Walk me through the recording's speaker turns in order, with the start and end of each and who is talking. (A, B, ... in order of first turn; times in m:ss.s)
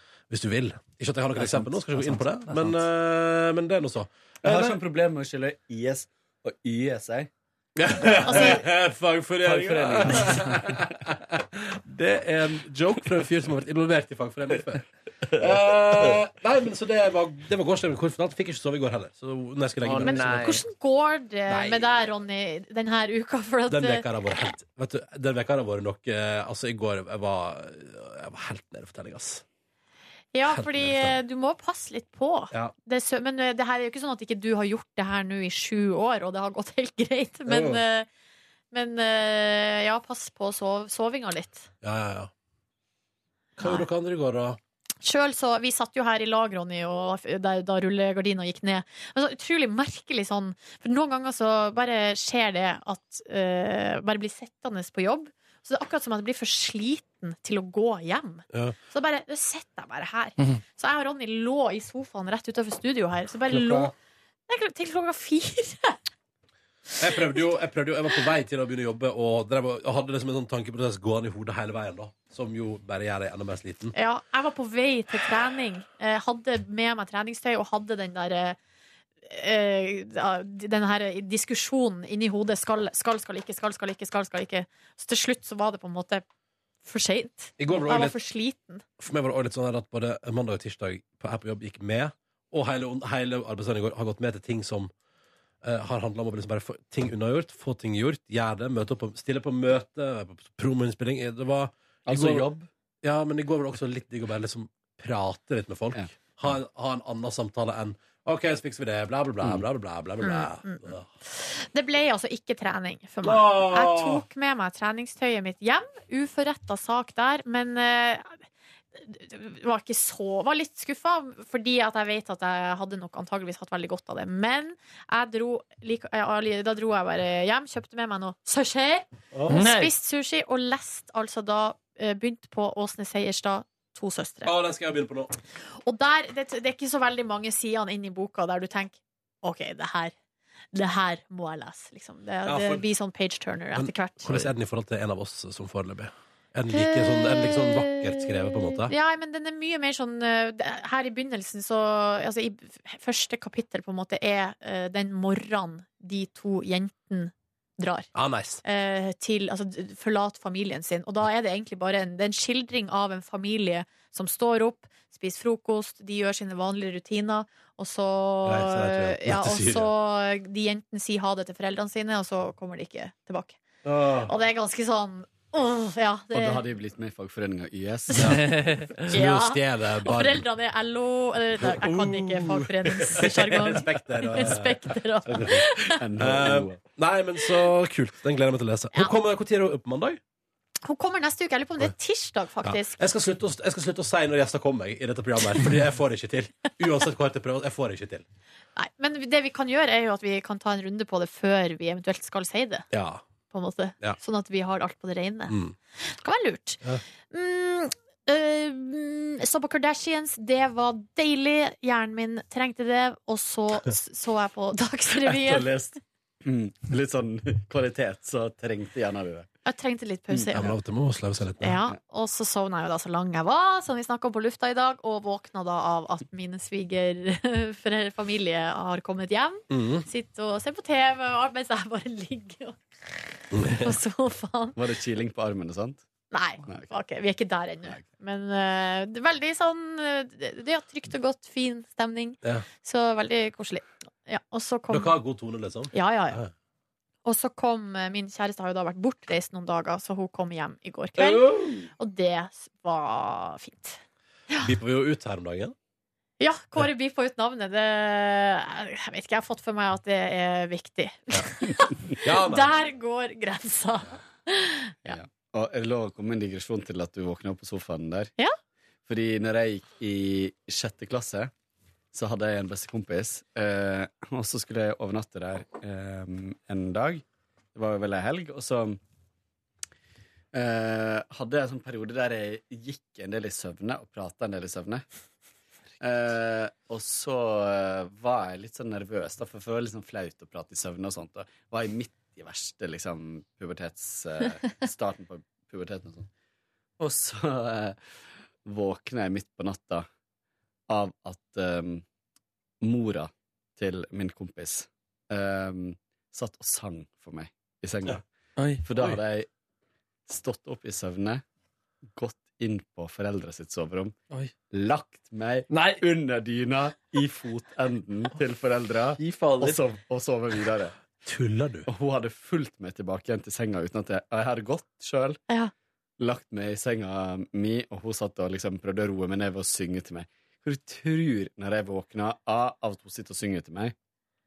0:00.3-0:04.8 A
0:01.4-0:02.8 B
0:04.4-0:07.3 C
0:07.8-0:20.5 A
0:08.2-0:08.6 D
0:09.4-0:10.8 C
0:19.8-0:20.6 B
0:20.0-0:24.1 D
0:21.5-0:21.9 A
0:23.7-0:29.4 A
0:30.3-0:38.1 D
0:30.5-0:31.2 A
0:37.5-0:37.8 A
0:38.7-0:41.7 D
0:41.8-0:42.3 A
0:43.6-0:44.6 A
0:45.0-1:03.9 D
1:03.5-1:03.9 A
1:04.5-1:06.0 D
1:07.0-1:07.4 D
1:07.0-1:14.0 A
1:14.0-1:18.6 D
1:19.2-1:26.2 D
1:26.8-1:28.8 D
1:27.6-1:28.2 A
1:29.0-1:34.9 A
1:35.6-1:42.5 A
1:42.1-1:42.7 C
1:43.0-1:51.1 A
1:50.2-2:14.5 D
1:53.2-1:54.2 A
2:09.3-2:09.6 A
2:09.5-2:09.9 B
2:14.4-2:15.3 A
2:15.8-2:20.1 D
2:20.7-2:24.5 D
2:22.4-2:22.8 A
2:23.8-2:28.9 A
2:26.7-2:38.1 D
2:38.2-2:38.6 A
2:38.6-2:53.6 D
2:48.4-2:49.9 A
2:53.8-2:54.3 A
2:54.2-2:56.6 D
2:56.3-2:58.5 C
2:58.2-3:00.5 A
2:58.2-2:59.0 B
2:59.1-3:06.0 D
3:01.6-3:05.6 A
3:05.9-3:06.8 C
3:06.2-3:10.2 A
3:10.8-3:13.0 D
3:12.6-3:18.2 A
3:18.8-3:22.9 D
3:22.9-3:23.2 A
3:23.5-3:35.7 D
3:25.5-3:25.8 A
3:35.2-3:39.5 C
3:39.6-3:40.7 D
3:40.3-3:40.8 C
3:40.5-3:41.8 A
3:41.6-3:54.8 D
3:49.7-3:50.1 A
3:53.5-3:54.0 A
3:54.8-3:56.0 C
3:56.3-4:05.2 D
4:04.9-4:06.5 A
4:05.9-4:06.4 D
4:07.2-4:14.0 D
4:11.2-4:11.9 A
4:14.6-4:15.8 A
4:16.4-4:25.2 D
4:22.2-4:22.7 A
4:25.1-4:28.3 C
4:29.1-4:31.5 C
4:32.1-4:39.0 C
4:40.5-4:45.0 C
4:46.0-4:56.3 C
4:57.0-4:58.0 C
4:58.6-5:00.1 C
5:00.9-5:02.0 C
5:02.8-5:08.2 C
5:08.6-5:08.8 B
5:08.8-5:09.5 C
5:10.3-5:11.4 C
5:12.2-5:14.2 C
5:14.7-5:21.0 C
5:15.7-5:16.0 B
5:19.2-5:19.8 B
5:21.2-5:21.9 A
5:21.9-5:25.4 C
5:26.2-5:33.9 C